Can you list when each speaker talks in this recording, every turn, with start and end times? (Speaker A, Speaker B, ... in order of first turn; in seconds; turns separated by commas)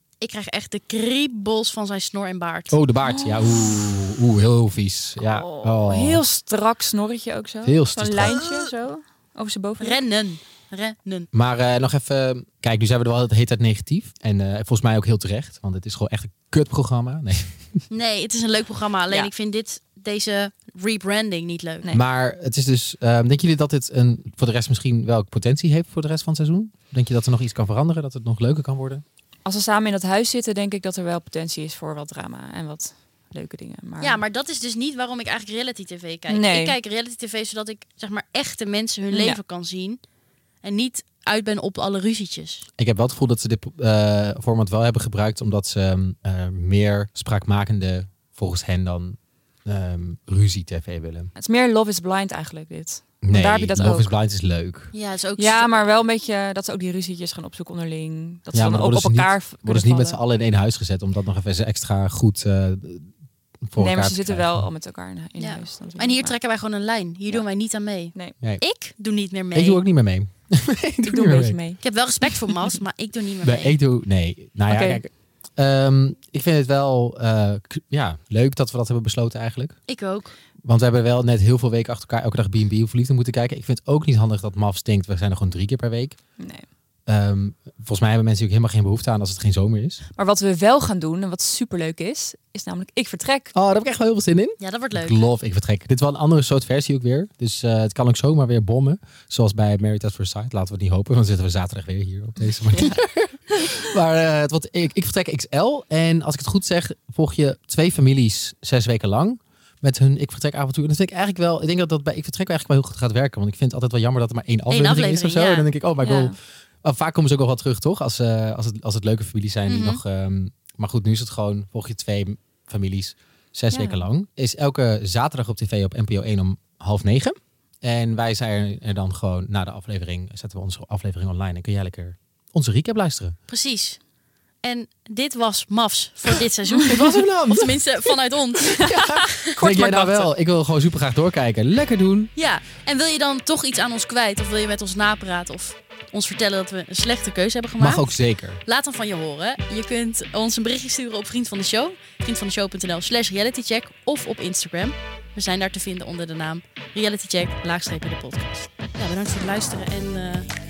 Speaker A: 0.2-2.8, Speaker B: 2.7-6.2, Speaker C: 3.0-3.7, Speaker C: 5.2-10.0, Speaker B: 7.6-8.4, Speaker A: 8.3-8.6, Speaker A: 9.8-11.3, Speaker B: 11.3-17.6, Speaker A: 17.9-21.9, Speaker B: 21.9-29.0, Speaker C: 29.4-34.2, Speaker A: 34.0-40.0, Speaker C: 36.3-36.8, Speaker C: 39.1-39.4, Speaker A: 40.6-42.7, Speaker B: 42.8-51.3, Speaker C: 51.3-54.1, Speaker B: 53.2-54.9, Speaker A: 54.9-55.9, Speaker C: 55.4-60.2, Speaker B: 58.5-63.1, Speaker B: 63.6-64.7, Speaker C: 63.8-66.3, Speaker A: 65.4-69.8, Speaker B: 69.5-71.6, Speaker C: 71.0-71.8, Speaker A: 71.8-73.8, Speaker B: 73.4-79.7, Speaker C: 74.7-75.0, Speaker A: 79.9-80.3, Speaker B: 80.6-86.2, Speaker B: 87.1-90.0, Speaker C: 90.2-93.5, Speaker B: 93.5-133.3, Speaker A: 94.6-95.3, Speaker A: 114.7-115.7, Speaker C: 116.0-116.3, Speaker A: 119.7-120.0, Speaker C: 123.7-124.1, Speaker A: 133.5-134.0, Speaker A: 134.6-139.5, Speaker B: 136.8-137.8, Speaker C: 138.7-140.3, Speaker B: 138.8-142.3, Speaker A: 142.3-160.5, Speaker B: 147.8-148.6